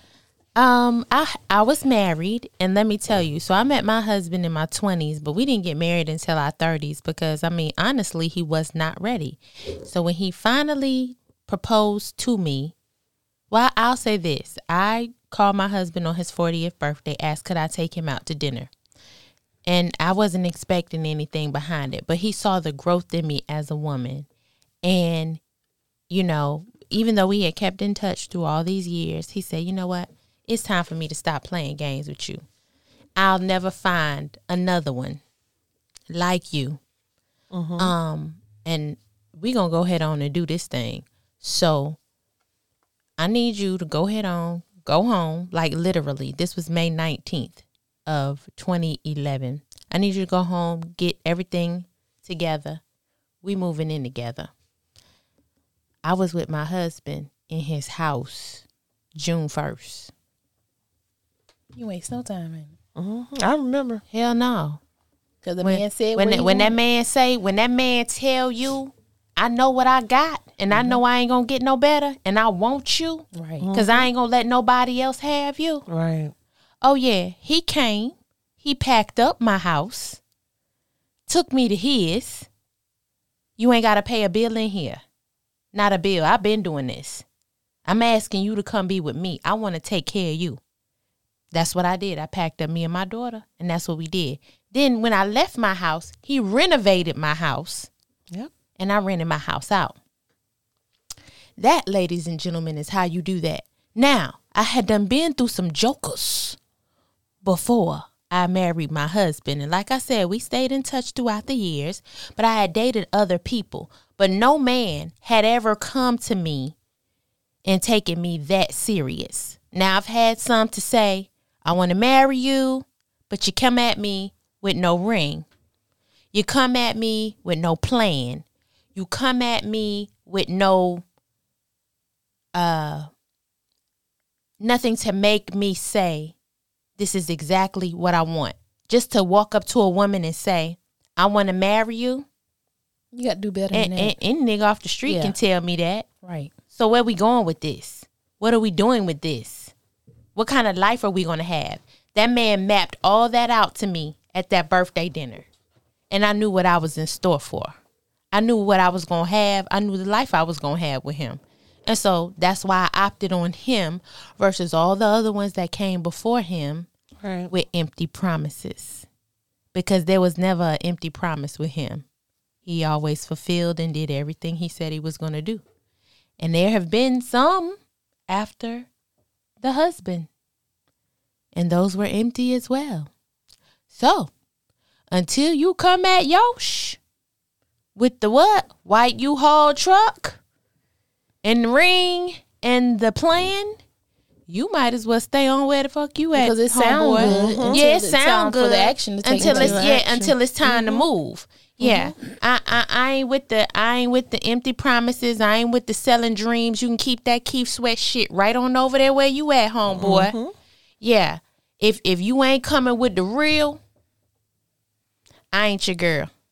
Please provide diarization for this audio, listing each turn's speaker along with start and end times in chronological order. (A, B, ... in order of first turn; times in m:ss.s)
0:00.6-0:12.7 A
0:13.5-0:18.7 A
0:19.6-0:24.3 A
0:24.8-0:25.4 A
0:26.1-0:32.4 A
0:33.2-0:35.2 A
0:36.1-0:36.8 A
0:37.5-0:37.9 B
0:37.8-0:42.0 A
0:43.2-0:52.8 A
0:53.4-0:54.5 A
0:56.0-0:58.6 A
0:59.1-1:00.1 A
1:01.7-1:02.7 C
1:03.0-1:04.0 B
1:04.1-1:04.8 A
1:05.4-1:06.8 C
1:05.6-1:15.8 A
1:13.3-1:13.6 C
1:13.6-1:14.1 B
1:15.9-1:16.3 B
1:16.8-1:20.2 A
1:21.3-1:22.5 A
1:23.6-1:25.0 A
1:25.7-1:27.2 A
1:27.8-1:30.6 A
1:31.5-1:37.9 A
1:38.8-1:40.0 A
1:41.6-1:46.6 A
1:47.4-1:56.7 A
1:57.6-2:05.4 A
2:06.3-2:11.0 A
2:12.5-2:13.1 A
2:14.6-2:16.3 A
2:17.0-2:22.2 A
2:23.1-2:24.1 C
2:23.7-2:26.1 A
2:25.0-2:25.4 C
2:26.2-2:26.5 C
2:26.7-2:29.7 A
2:30.3-2:35.5 A
2:36.1-2:37.7 A
2:38.3-2:46.9 A
2:47.2-2:47.5 B
2:47.5-2:49.0 A
2:49.7-2:52.0 A
2:52.6-2:55.6 A
2:56.4-2:57.8 A
2:58.3-2:58.9 A
2:59.6-3:00.3 A
3:01.5-3:03.1 A
3:03.9-3:04.3 A
3:05.1-3:07.0 A
3:08.0-3:10.4 A
3:11.4-3:13.8 A
3:14.5-3:30.3 A
3:16.4-3:19.8 C
3:17.2-3:17.8 B
3:19.4-3:21.1 B
3:21.8-3:22.1 C
3:29.8-3:30.5 B
3:31.0-3:33.8 A
3:35.5-3:36.3 A